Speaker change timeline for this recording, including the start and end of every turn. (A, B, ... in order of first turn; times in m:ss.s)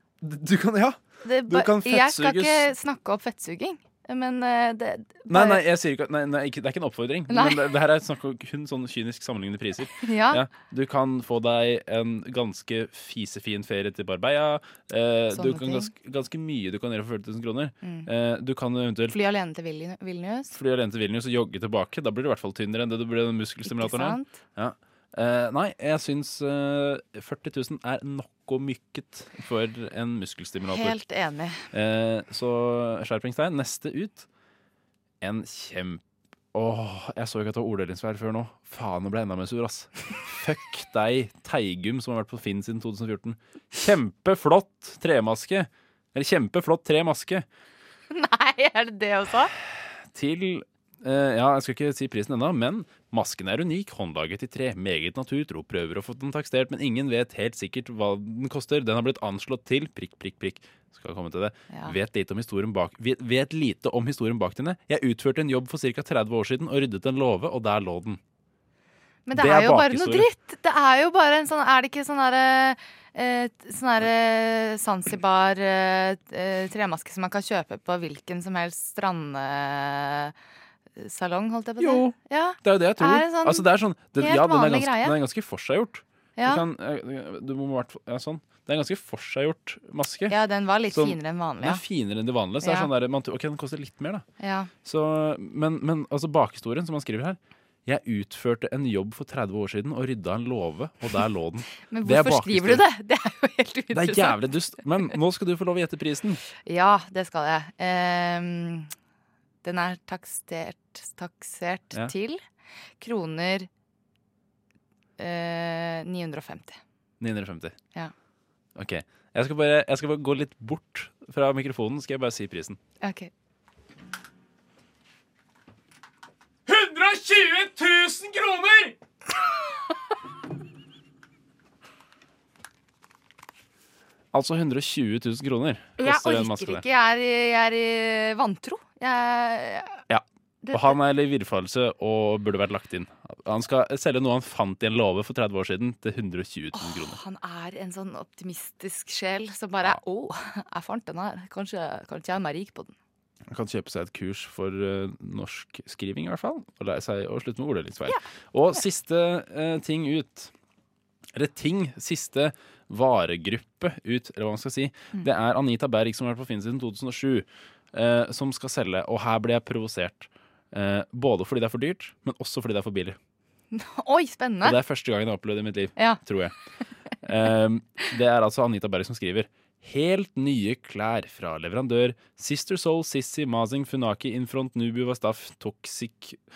0:00.2-0:02.7 A
0:01.2-0:05.6 B
0:05.3-0:19.2 A
0:07.3-0:07.6 B
0:10.0-0:10.4 B
0:15.3-0:15.9 B
0:17.8-0:18.1 B
0:19.1-0:20.6 B
0:20.5-0:31.0 A
0:23.6-0:24.4 B
0:30.7-0:31.7 B
0:31.7-0:34.3 A
0:35.2-0:36.0 A
0:36.5-0:47.4 A
0:48.1-0:49.5 B
0:50.1-1:08.2 A
1:01.7-1:02.0 B
1:09.3-1:20.3 B
1:09.3-1:10.3 A
1:21.0-1:25.2 B
1:21.8-1:30.4 A
1:26.4-1:26.6 B
1:30.3-1:31.8 B
1:30.9-1:34.2 A
1:32.6-1:32.9 B
1:34.4-1:34.7 B
1:34.8-1:42.9 A
1:41.8-1:44.4 B
1:43.9-1:46.4 A
1:46.5-1:48.9 B
1:49.6-1:52.4 B
1:53.0-1:53.7 B
1:55.2-1:56.8 B
1:57.2-1:57.8 A
1:58.8-2:02.8 A
2:03.0-2:03.3 B
2:06.7-2:08.9 A
2:14.3-2:16.8 A
2:16.0-2:20.0 B
2:20.1-2:27.2 A
2:20.6-2:21.0 B
2:26.7-2:32.9 B
2:33.5-2:40.5 A
2:41.4-2:53.2 A
2:53.7-2:54.8 B
2:54.6-2:56.5 A
2:56.0-2:56.2 B
2:57.2-3:06.4 A